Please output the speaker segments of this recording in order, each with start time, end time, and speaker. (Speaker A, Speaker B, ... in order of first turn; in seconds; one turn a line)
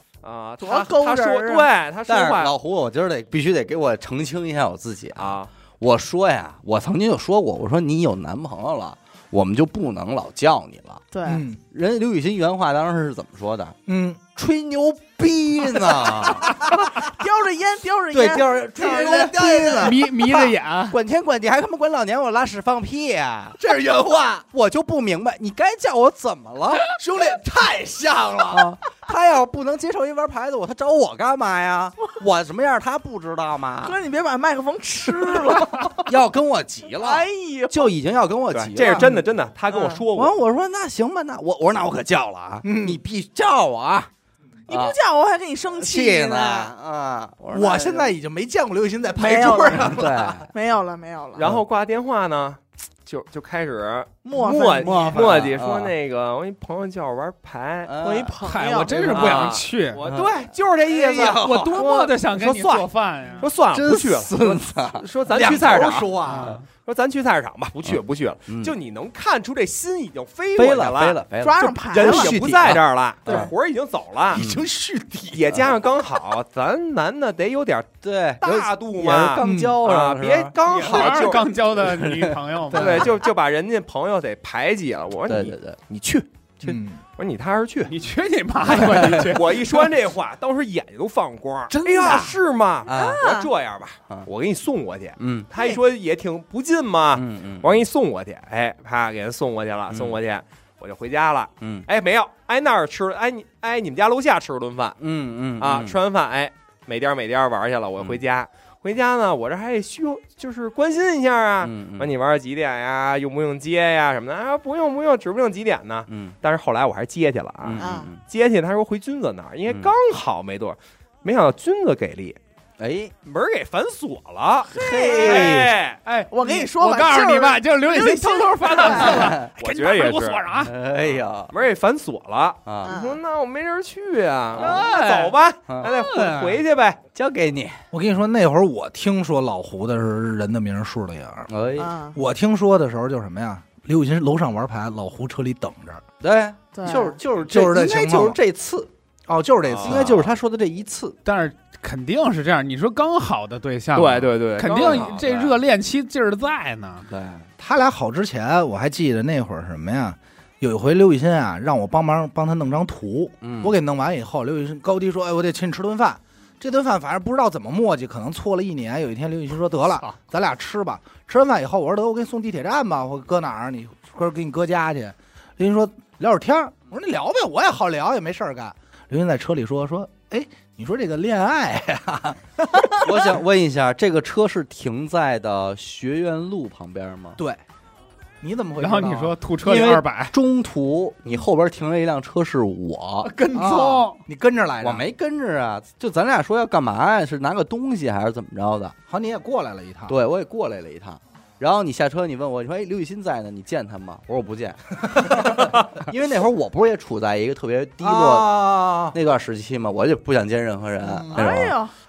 Speaker A: 0.2-2.5
Speaker B: 0.6-1.7
Speaker C: 2.1-11.0
Speaker A: 5.2-5.5
Speaker B: 11.1-11.4
Speaker D: 11.3-11.6
Speaker C: 11.6-13.8
Speaker D: 13.9-14.2
Speaker C: 14.3-17.0
Speaker B: 16.9-19.9
Speaker C: 18.1-20.4
Speaker D: 18.8-20.4
Speaker E: 19.8-21.0
Speaker C: 20.9-23.6
Speaker D: 23.6-24.5
Speaker C: 24.5-26.9
Speaker D: 26.9-28.7
Speaker C: 28.5-34.0
Speaker B: 33.8-36.1
Speaker C: 35.6-39.1
Speaker B: 37.0-37.9
Speaker A: 38.5-40.4
Speaker D: 38.9-39.2
Speaker C: 40.1-44.1
Speaker D: 42.6-43.0
Speaker B: 44.7-46.7
Speaker C: 44.7-45.0
Speaker C: 45.8-48.1
Speaker D: 47.5-50.4
Speaker B: 49.1-50.0
Speaker C: 49.9-50.5
Speaker B: 50.5-51.5
Speaker A: 51.4-57.9
Speaker B: 54.2-55.4
Speaker C: 54.4-55.9
Speaker C: 57.9-58.4
Speaker B: 58.0-59.2
Speaker E: 58.4-60.0
Speaker A: 58.9-62.9
Speaker C: 60.1-61.8
Speaker D: 61.0-61.6
Speaker E: 61.0-63.5
Speaker A: 63.4-66.2
Speaker C: 63.7-65.1
Speaker D: 65.3-66.6
Speaker E: 66.2-66.7
Speaker A: 66.8-74.4
Speaker C: 68.5-68.7
Speaker C: 70.6-73.5
Speaker B: 71.4-72.4
Speaker D: 74.3-75.7
Speaker C: 74.3-74.7
Speaker A: 75.3-81.6
Speaker C: 78.0-81.2
Speaker D: 79.4-79.8
Speaker E: 80.6-83.2
Speaker C: 81.8-83.0
Speaker A: 82.7-88.0
Speaker C: 85.3-85.8
Speaker D: 86.6-87.0
Speaker E: 87.9-89.9
Speaker A: 88.6-105.0
Speaker C: 91.7-92.3
Speaker C: 92.9-93.3
Speaker B: 92.9-93.5
Speaker C: 95.2-95.5
Speaker B: 95.5-95.8
Speaker C: 97.2-97.8
Speaker C: 99.9-100.2
Speaker C: 101.6-101.9
Speaker C: 105.0-106.0
Speaker A: 105.6-122.4
Speaker C: 111.6-112.1
Speaker C: 116.1-116.4
Speaker C: 117.6-118.2
Speaker B: 117.8-118.1
Speaker C: 119.7-119.9
Speaker C: 122.8-123.1
Speaker A: 123.2-126.0
Speaker B: 124.7-125.6
Speaker C: 124.7-125.8
Speaker E: 126.0-130.7
Speaker B: 126.3-129.3
Speaker A: 128.8-130.5
Speaker C: 129.1-129.5
Speaker C: 130.6-131.5
Speaker A: 131.0-137.0
Speaker C: 132.7-132.9
Speaker B: 132.8-133.2
Speaker E: 134.6-135.3
Speaker E: 135.9-136.6
Speaker C: 137.1-137.8
Speaker D: 137.9-141.5
Speaker C: 141.5-141.9
Speaker B: 141.8-142.2
Speaker D: 142.2-146.0
Speaker C: 146.2-148.9
Speaker B: 146.7-147.2
Speaker D: 147.4-148.4
Speaker D: 149.3-150.3
Speaker A: 149.7-150.2
Speaker C: 149.8-151.2
Speaker E: 151.2-157.1
Speaker A: 153.9-155.2
Speaker C: 154.9-155.6
Speaker C: 157.1-157.5
Speaker D: 157.6-183.4
Speaker C: 163.4-163.8
Speaker C: 182.9-187.4
Speaker D: 188.4-189.4
Speaker E: 188.8-190.3
Speaker C: 189.6-193.8
Speaker E: 193.2-194.2
Speaker D: 193.5-195.0
Speaker C: 194.8-198.9
Speaker D: 199.1-200.2
Speaker C: 200.1-208.6
Speaker D: 205.1-205.7
Speaker D: 208.0-209.2
Speaker C: 209.1-211.8
Speaker D: 211.0-211.5
Speaker B: 211.3-211.9